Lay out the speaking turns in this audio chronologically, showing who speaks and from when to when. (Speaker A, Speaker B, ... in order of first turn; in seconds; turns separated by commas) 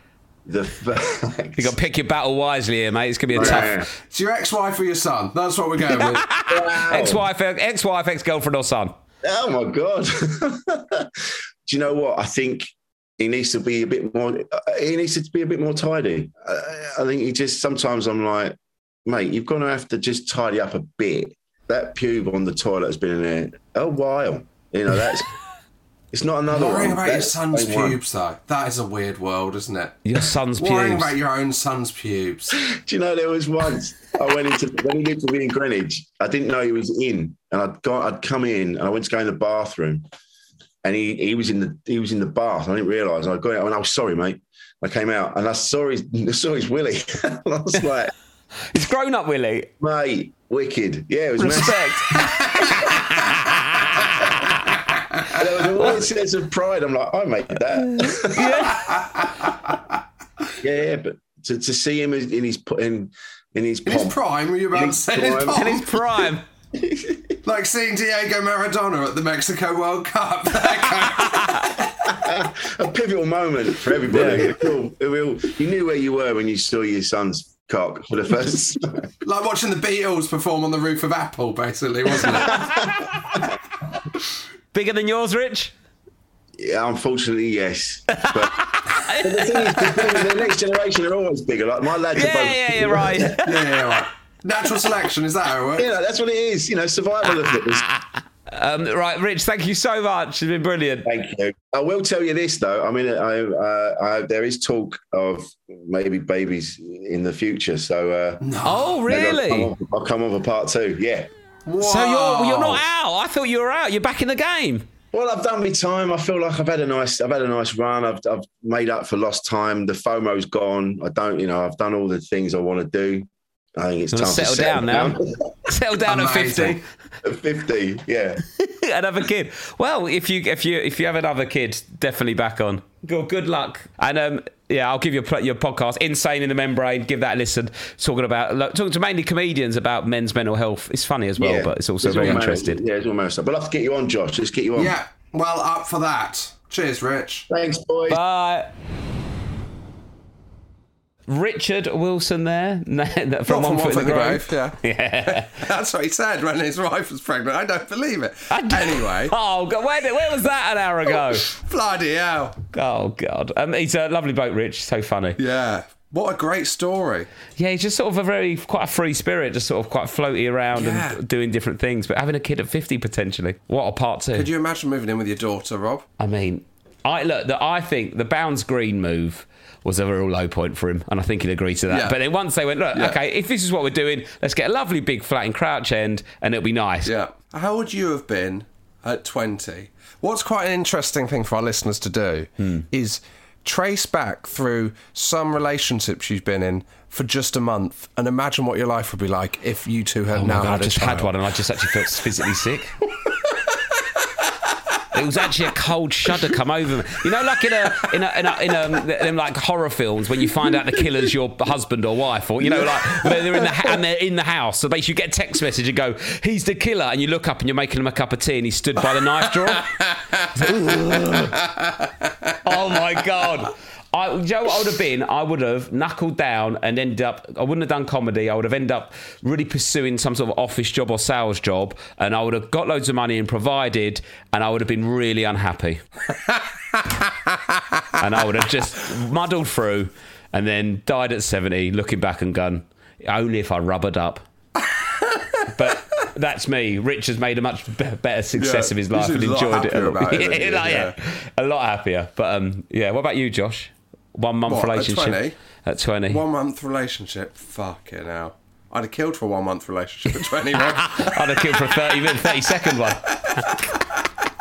Speaker A: 0.5-1.8, Speaker B: 1.6-3.7, Speaker A: 3.3-3.9, Speaker C: 3.4-6.3, Speaker B: 5.9-8.9, Speaker A: 6.5-7.3, Speaker A: 9.2-25.3, Speaker A: 26.1-28.0, Speaker C: 26.5-32.6, Speaker B: 30.1-31.1, Speaker A: 32.7-40.0, Speaker A: 40.8-48.1, Speaker B: 48.7-49.7, Speaker A: 49.8-52.9, Speaker B: 51.4-54.6, Speaker C: 52.2-52.9, Speaker A: 55.3-58.8, Speaker B: 57.8-58.9, Speaker C: 58.8-59.8, Speaker A: 60.6-64.2, Speaker C: 63.9-66.0, Speaker A: 64.7-65.8, Speaker B: 65.5-66.4, Speaker A: 66.8-67.4, Speaker C: 67.4-71.8, Speaker B: 71.3-71.7, Speaker A: 72.0-79.1, Speaker B: 74.1-74.5, Speaker C: 79.2-82.7, Speaker A: 82.2-83.4, Speaker B: 84.7-85.7, Speaker A: 86.6-93.3, Speaker B: 88.2-89.9, Speaker B: 92.1-93.7, Speaker C: 93.4-95.9, Speaker A: 95.8-97.9, Speaker B: 98.0-101.1, Speaker A: 101.0-108.5, Speaker C: 108.4-109.0, Speaker B: 108.7-109.7, Speaker A: 109.0-111.3, Speaker C: 111.7-112.8, Speaker B: 111.8-114.9, Speaker A: 115.1-125.5, Speaker B: 124.1-126.8, Speaker C: 126.0-126.8, Speaker A: 127.2-128.4, Speaker B: 128.6-142.8, Speaker A: 141.4-145.0, Speaker C: 144.8-147.5, Speaker A: 147.5-148.2, Speaker B: 148.1-148.7, Speaker B: 151.3-155.5, Speaker C: 153.5-159.3, Speaker B: 158.5-161.5, Speaker C: 161.5-162.6, Speaker B: 162.7-165.4, Speaker C: 165.4-167.3, Speaker B: 167.6-174.5, Speaker C: 170.7-171.2, Speaker C: 174.3-176.1, Speaker B: 176.2-187.1, Speaker C: 181.9-182.2, Speaker C: 187.1-201.4, Speaker B: 200.3-203.0, Speaker C: 202.0-202.4, Speaker C: 203.3-203.6, Speaker B: 205.1-219.9, Speaker C: 207.6-208.1, Speaker C: 208.7-209.0, Speaker C: 210.4-210.8, Speaker C: 212.6-214.0, Speaker C: 219.1-222.5, Speaker B: 220.6-221.6, Speaker B: 222.6-236.0, Speaker C: 236.5-237.3, Speaker B: 238.2-244.4, Speaker C: 244.8-245.7, Speaker B: 245.7-256.4, Speaker C: 248.6-251.2, Speaker C: 254.7-255.6, Speaker C: 256.3-264.1, Speaker B: 261.0-263.9